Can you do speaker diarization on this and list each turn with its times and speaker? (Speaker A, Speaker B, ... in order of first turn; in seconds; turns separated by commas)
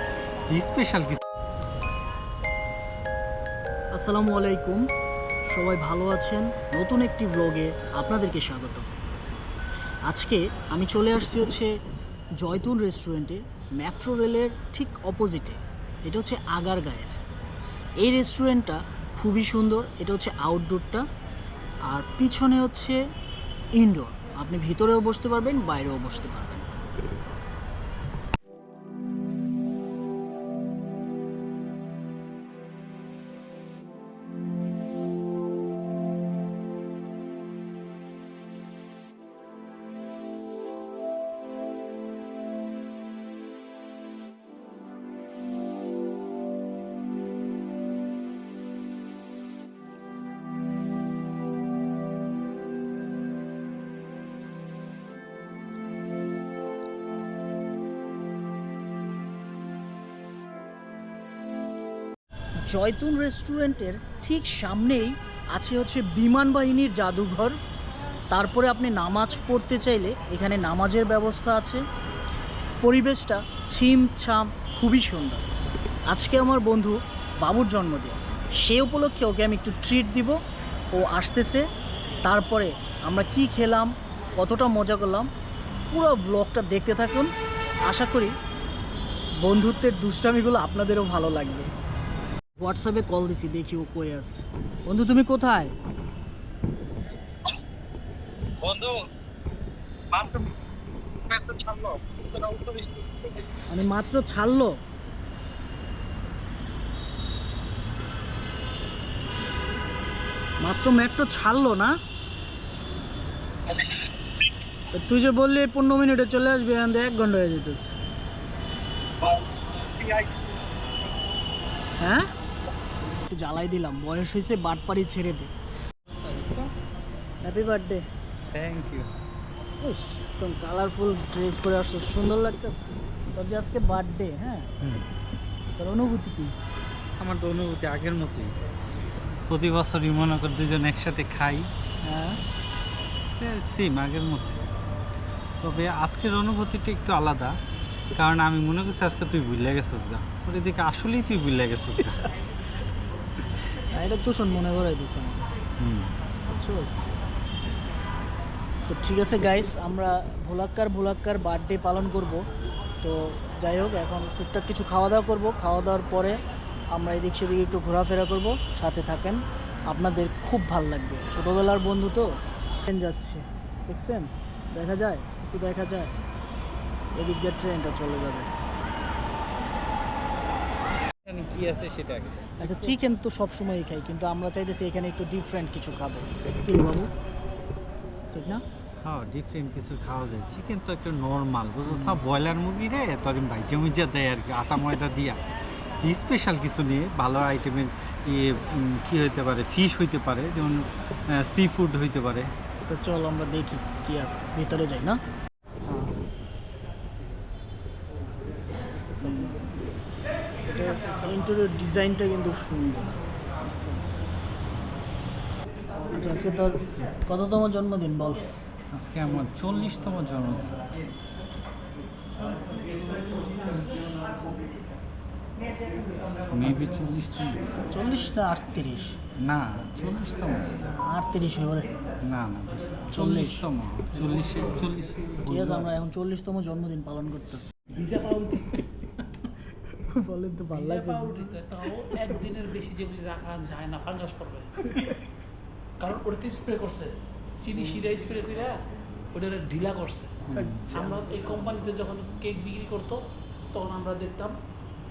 Speaker A: 0.5-1.2, Speaker B: 3.9-4.9, Speaker B: 5.5-8.9, Speaker B: 10.1-11.7, Speaker B: 12.4-17.2, Speaker B: 18.0-21.1, Speaker B: 21.9-23.0, Speaker B: 23.8-26.7, Speaker B: 62.6-67.6, Speaker B: 68.3-71.8, Speaker B: 72.8-75.5, Speaker B: 76.1-80.4, Speaker B: 80.9-81.7, Speaker B: 82.2-85.3, Speaker B: 85.9-87.3, Speaker B: 87.9-88.3, Speaker B: 89.4-91.7, Speaker B: 92.6-95.7, Speaker A: 98.6-99.1, Speaker A: 100.1-100.5, Speaker A: 101.3-103.0, Speaker B: 103.7-104.8, Speaker B: 110.6-112.0, Speaker B: 114.9-118.0, Speaker A: 119.2-120.3, Speaker B: 122.0-122.3, Speaker B: 123.3-125.5, Speaker A: 126.1-126.7, Speaker B: 127.4-128.0, Speaker A: 128.5-129.1, Speaker B: 129.8-134.7, Speaker A: 134.8-135.1, Speaker B: 135.8-136.5, Speaker A: 137.2-138.5, Speaker A: 139.5-141.7, Speaker B: 142.0-142.4, Speaker A: 143.4-144.7, Speaker A: 145.6-147.6, Speaker A: 148.2-152.3, Speaker B: 153.9-155.4, Speaker A: 155.8-156.1, Speaker B: 156.6-157.1, Speaker B: 158.9-162.4, Speaker B: 163.0-166.4, Speaker B: 166.9-172.3, Speaker B: 172.8-176.2, Speaker B: 177.2-178.6, Speaker A: 181.2-182.6, Speaker B: 182.6-187.1, Speaker B: 188.3-188.6, Speaker A: 189.0-195.4, Speaker B: 191.9-192.2, Speaker A: 196.0-202.5, Speaker B: 202.9-205.2, Speaker B: 209.1-209.7, Speaker B: 210.7-213.1, Speaker C: 216.1-216.6, Speaker B: 216.1-218.5, Speaker A: 218.9-220.8, Speaker C: 222.4-224.1, Speaker A: 226.5-227.6, Speaker B: 227.9-229.2, Speaker A: 229.4-230.7, Speaker B: 231.0-231.9, Speaker A: 232.2-235.9, Speaker B: 233.1-233.7, Speaker B: 235.5-238.0, Speaker C: 237.9-238.9, Speaker B: 239.9-241.5, Speaker C: 240.7-245.2, Speaker C: 246.0-250.4, Speaker A: 250.5-250.9, Speaker B: 250.5-251.1, Speaker C: 250.9-254.6